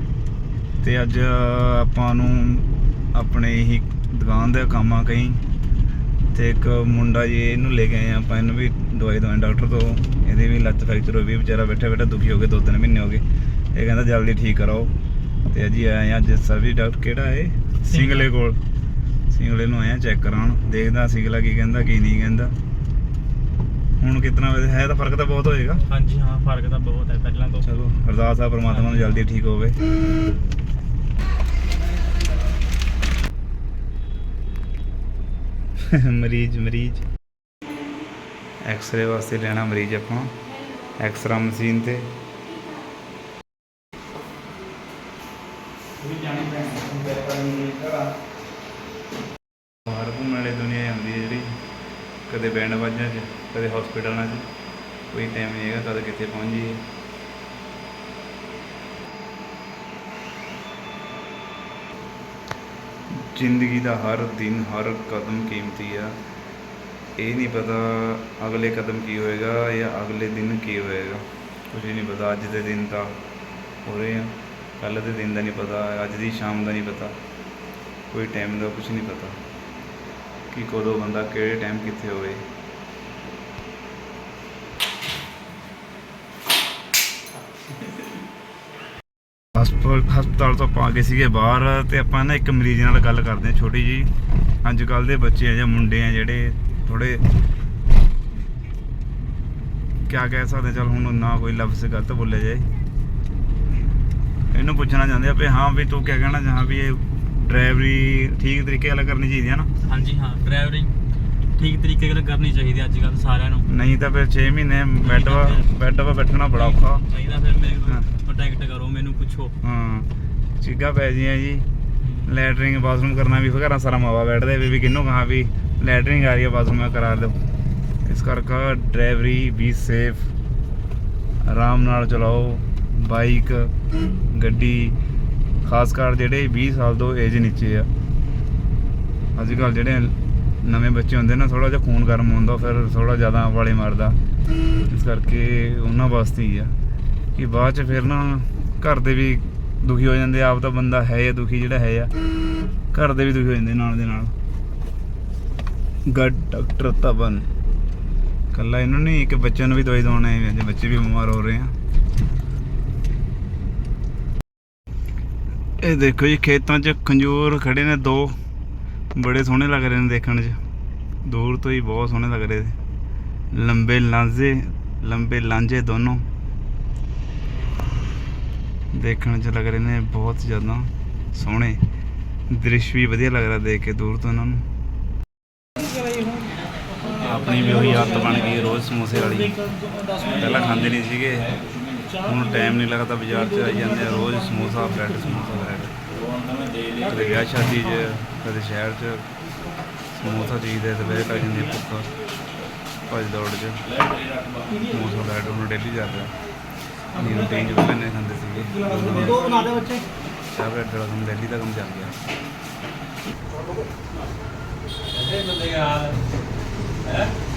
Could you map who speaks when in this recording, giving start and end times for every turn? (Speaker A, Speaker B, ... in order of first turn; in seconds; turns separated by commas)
Speaker A: 0.8-5.4, Speaker A: 6.3-14.9, Speaker A: 15.5-18.6, Speaker B: 17.9-18.3, Speaker A: 19.3-22.5, Speaker A: 24.0-25.8, Speaker B: 25.9-27.7, Speaker A: 27.6-29.8, Speaker B: 28.6-29.2, Speaker A: 35.8-37.0, Speaker A: 38.6-40.3, Speaker A: 41.0-42.1, Speaker A: 46.0-48.1, Speaker A: 49.9-51.6, Speaker A: 52.3-54.5, Speaker A: 55.1-56.8, Speaker A: 63.1-66.2, Speaker A: 67.2-73.2, Speaker A: 73.8-77.1, Speaker A: 78.1-79.4, Speaker A: 80.5-82.4, Speaker A: 89.5-94.1, Speaker A: 94.6-97.2, Speaker A: 100.0-102.7, Speaker A: 104.5-109.7, Speaker B: 109.8-110.9, Speaker B: 111.5-113.7, Speaker A: 113.7-117.0, Speaker B: 115.0-115.7, Speaker B: 116.5-119.5, Speaker A: 119.6-120.1, Speaker A: 120.6-121.7, Speaker B: 122.0-122.3, Speaker A: 122.2-127.3, Speaker A: 128.0-130.3, Speaker A: 131.4-133.7, Speaker A: 134.3-134.9, Speaker A: 135.6-137.9, Speaker A: 139.4-144.2, Speaker A: 144.9-146.7, Speaker A: 147.3-152.1, Speaker A: 152.9-154.3, Speaker A: 156.1-157.5, Speaker A: 158.5-161.7, Speaker A: 165.8-168.4, Speaker A: 169.1-170.6, Speaker A: 171.2-172.8, Speaker A: 173.5-176.2, Speaker A: 178.9-181.8, Speaker A: 182.5-184.6, Speaker A: 187.2-189.6, Speaker A: 190.3-191.5, Speaker A: 192.2-196.0, Speaker A: 197.0-199.3, Speaker A: 200.1-202.1, Speaker A: 203.1-203.8, Speaker A: 204.8-206.3, Speaker A: 207.2-209.5, Speaker A: 210.5-212.2, Speaker B: 215.2-216.1